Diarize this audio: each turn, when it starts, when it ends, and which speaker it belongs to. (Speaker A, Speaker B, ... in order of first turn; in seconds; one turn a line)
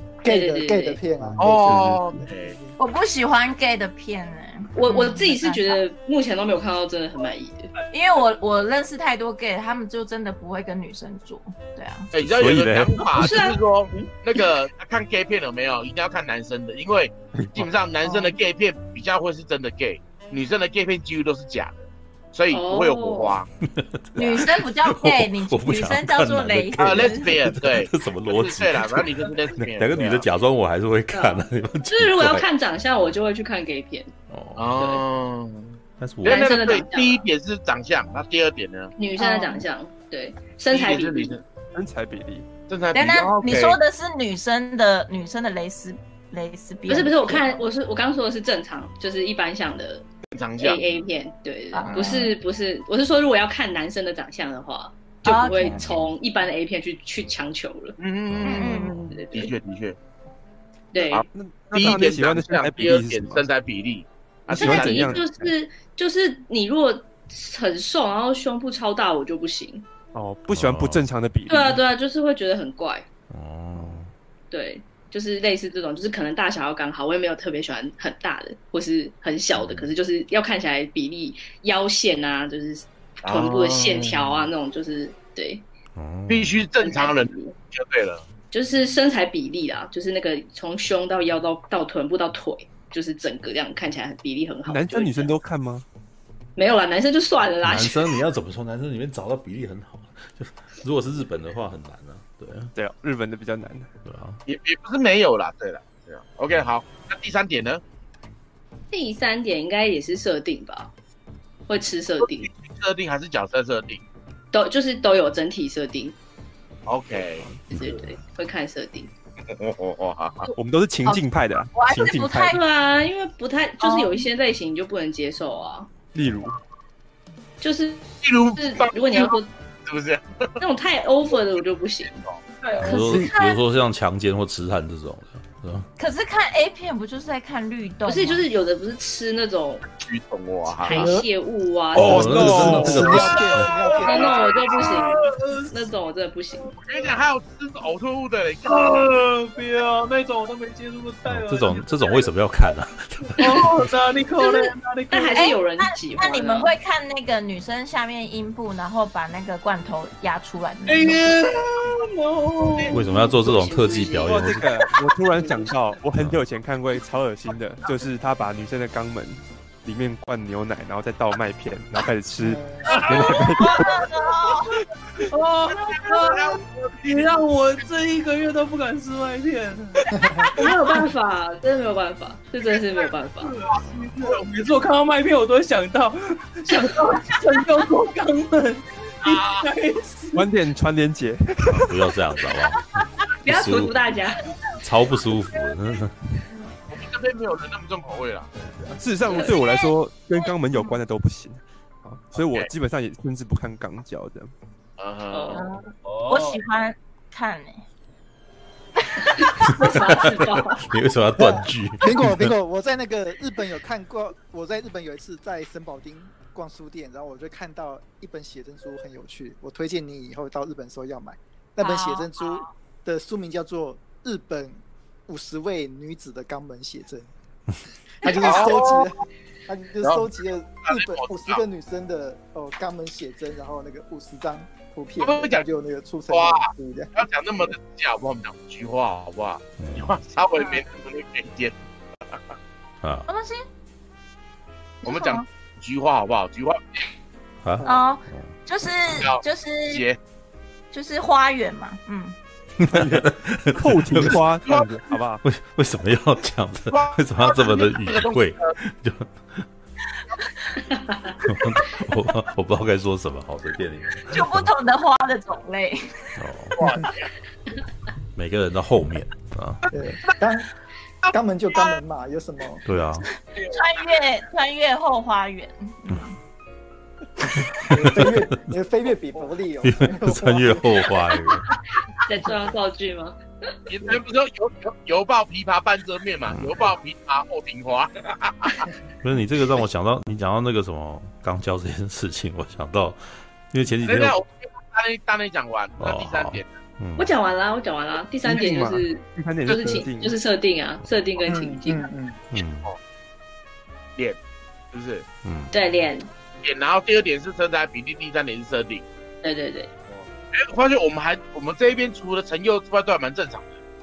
Speaker A: 0.2-2.7
Speaker B: 0.2-1.0
Speaker C: 1.2-2.2
Speaker D: 1.4-2.6
Speaker E: 2.8-5.8
Speaker B: 4.7-7.7
Speaker E: 7.9-12.1
Speaker D: 12.1-23.5
Speaker F: 12.3-12.9
Speaker B: 13.1-14.5
Speaker C: 17.3-17.7
Speaker E: 18.0-18.3
Speaker B: 22.5-23.4
Speaker F: 23.8-29.2
Speaker E: 24.1-27.3
Speaker D: 26.8-30.2
Speaker F: 29.8-32.5
Speaker B: 31.1-34.1
Speaker F: 34.3-35.0
Speaker D: 34.5-38.9
Speaker F: 36.0-36.7
Speaker B: 36.2-37.3
Speaker B: 39.0-41.4
Speaker E: 39.2-39.6
Speaker D: 40.7-41.4
Speaker C: 41.7-42.5
Speaker D: 42.7-43.8
Speaker E: 42.9-47.5
Speaker B: 46.9-59.5
Speaker D: 50.3-50.9
Speaker E: 51.7-52.3
Speaker D: 51.8-52.2
Speaker E: 55.2-55.9
Speaker D: 58.0-60.0
Speaker F: 58.3-59.2
Speaker E: 58.5-58.9
Speaker B: 60.9-61.2
Speaker D: 61.1-65.2
Speaker C: 61.3-63.5
Speaker C: 64.5-65.5
Speaker B: 64.5-69.8
Speaker C: 70.1-71.8
Speaker F: 70.5-71.0
Speaker B: 71.5-73.1
Speaker F: 73.3-74.1
Speaker B: 74.5-85.6
Speaker F: 79.5-79.9
Speaker D: 83.2-84.5
Speaker F: 86.0-86.6
Speaker D: 86.3-88.2
Speaker B: 86.8-87.5
Speaker B: 88.5-95.3
Speaker C: 94.7-95.8
Speaker B: 96.5-98.2
Speaker F: 97.6-102.7
Speaker C: 102.7-103.9
Speaker F: 104.0-104.4
Speaker D: 104.5-107.8
Speaker B: 108.9-110.9
Speaker B: 111.7-112.5
Speaker D: 112.2-114.0
Speaker B: 114.5-116.2
Speaker D: 116.9-117.5
Speaker B: 117.7-119.1
Speaker F: 117.7-118.1
Speaker D: 119.5-120.5
Speaker C: 120.5-122.6
Speaker E: 121.7-122.6
Speaker B: 122.5-125.9
Speaker E: 123.8-124.2
Speaker C: 126.1-126.6
Speaker B: 127.6-129.5
Speaker D: 128.2-130.6
Speaker B: 130.6-133.6
Speaker F: 132.8-135.9
Speaker E: 132.8-133.5
Speaker E: 136.0-138.4
Speaker B: 138.1-139.8
Speaker D: 139.9-141.1
Speaker B: 140.8-143.4
Speaker A: 140.9-141.2
Speaker F: 141.9-143.7
Speaker C: 141.9-143.3
Speaker A: 142.3-144.7
Speaker G: 143.6-145.8
Speaker B: 144.0-146.7
Speaker D: 144.1-144.7
Speaker D: 146.8-149.1
Speaker G: 148.6-152.3
Speaker F: 151.2-153.8
Speaker G: 153.4-155.5
Speaker B: 155.1-156.7
Speaker E: 155.3-161.4
Speaker G: 160.8-163.3
Speaker F: 162.9-164.7
Speaker B: 163.0-164.6
Speaker C: 164.2-174.1
Speaker A: 172.4-173.0
Speaker E: 173.5-174.8
Speaker G: 175.3-181.0
Speaker D: 175.7-177.3
Speaker B: 180.6-183.5
Speaker G: 183.3-190.5
Speaker F: 183.7-184.1
Speaker D: 189.2-189.7
Speaker C: 190.3-192.0
Speaker F: 191.7-194.0
Speaker B: 193.4-194.4
Speaker F: 194.7-196.2
Speaker D: 196.9-198.6
Speaker C: 198.9-204.5
Speaker B: 199.3-199.5
Speaker E: 199.4-199.9
Speaker D: 202.4-202.7
Speaker D: 205.0-205.7
Speaker B: 205.3-205.7
Speaker E: 205.5-207.8
Speaker G: 206.0-206.6
Speaker B: 209.4-210.9
Speaker F: 209.9-212.5
Speaker A: 211.4-227.3
Speaker E: 221.8-222.7
Speaker A: 228.2-237.7
Speaker D: 228.2-229.1
Speaker D: 230.0-230.3
Speaker D: 230.8-231.6
Speaker D: 235.2-235.6
Speaker D: 236.3-241.8
Speaker F: 239.8-240.2
Speaker E: 240.6-240.8
Speaker F: 243.0-243.3
Speaker E: 243.3-243.6
Speaker E: 245.0-245.4
Speaker D: 245.0-247.0
Speaker F: 247.6-248.5
Speaker E: 247.8-250.0
Speaker D: 249.1-250.2
Speaker E: 250.9-252.3
Speaker F: 252.8-254.4
Speaker C: 252.9-255.4
Speaker D: 254.7-254.9
Speaker F: 255.4-259.6
Speaker D: 256.9-258.7
Speaker B: 260.9-261.4
Speaker F: 261.4-264.7
Speaker E: 264.3-266.3
Speaker F: 266.4-266.8
Speaker D: 266.8-267.3
Speaker F: 268.3-269.9
Speaker A: 269.9-270.7
Speaker A: 271.3-272.9
Speaker F: 272.9-273.3
Speaker E: 273.6-276.3
Speaker F: 277.8-278.4
Speaker A: 277.8-281.1
Speaker F: 279.8-281.7
Speaker B: 282.2-283.4
Speaker D: 283.9-288.9
Speaker F: 286.4-286.8
Speaker F: 289.2-294.4
Speaker D: 294.0-296.7
Speaker F: 296.0-297.3
Speaker B: 297.2-302.1
Speaker C: 298.4-300.4
Speaker A: 301.4-302.4
Speaker F: 302.5-302.9
Speaker D: 304.9-305.2
Speaker F: 305.4-305.7
Speaker B: 305.7-306.3
Speaker D: 306.6-309.0
Speaker B: 309.4-309.9
Speaker D: 310.1-313.7